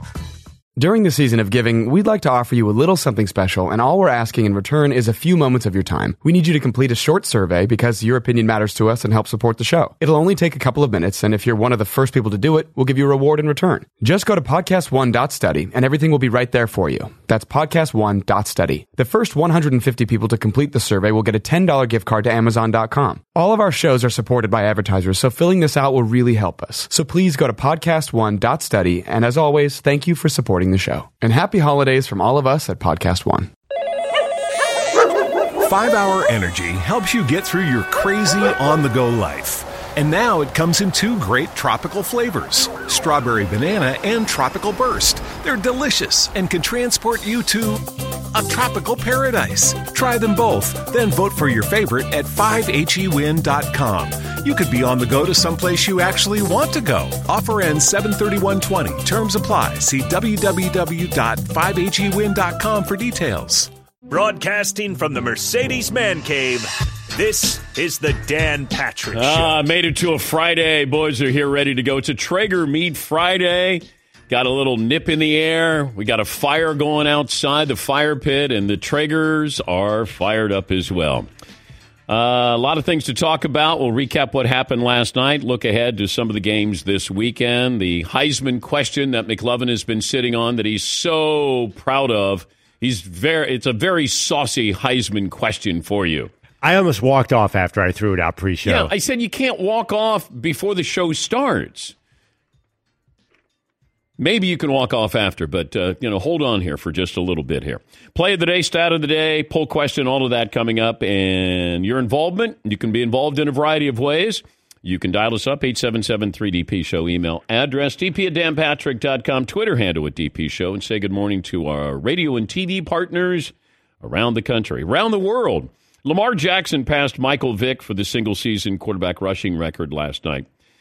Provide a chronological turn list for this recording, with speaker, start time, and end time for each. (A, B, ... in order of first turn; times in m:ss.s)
0:00.8-0:33.5 A
0:35.6-1:03.7 B
1:04.1-1:09.6 C
1:09.1-1:21.3 D
1:22.1-1:36.3 D
1:36.6-1:38.9 E
1:38.6-1:41.9 D
1:44.2-2:10.4 D